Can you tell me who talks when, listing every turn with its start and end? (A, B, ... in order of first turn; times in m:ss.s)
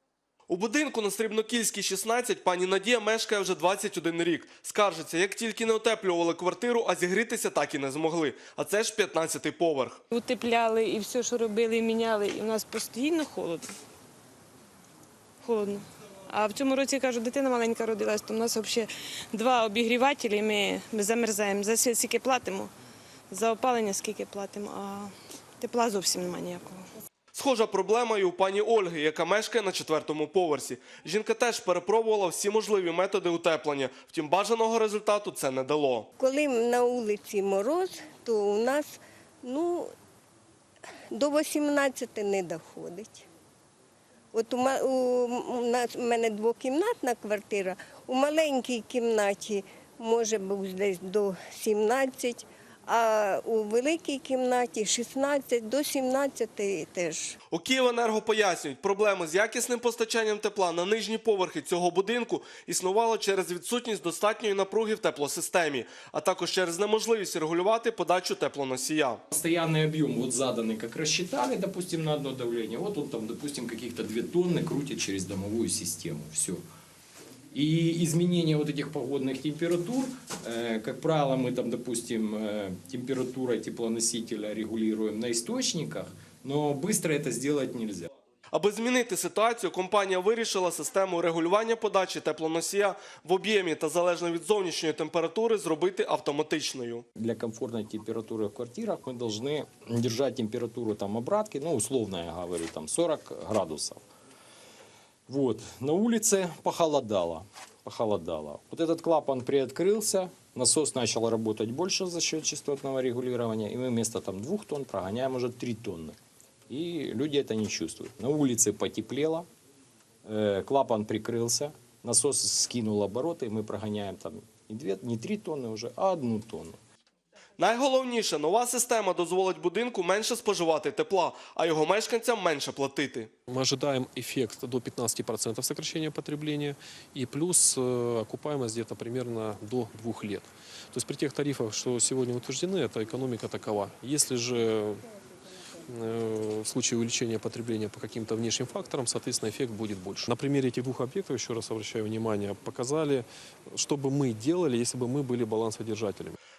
0:00.5-0:10.0 A
0:10.1-0:13.7 B
0:15.4-0:22.7 B
0:23.3-0:26.8 B
0:27.3-0:36.1 A
0:36.2-0:39.9 C
0:41.1-0:43.2 C
0:44.3-0:57.3 C
0:57.5-1:09.2 A
1:09.3-1:16.6 D
1:17.5-1:28.1 D
1:28.5-1:37.0 A
1:37.2-1:44.0 D
1:45.3-1:56.2 D
1:56.7-1:59.4 D
2:00.2-2:06.8 D
2:07.6-2:13.3 A
2:13.5-2:25.0 E
2:25.9-2:36.3 E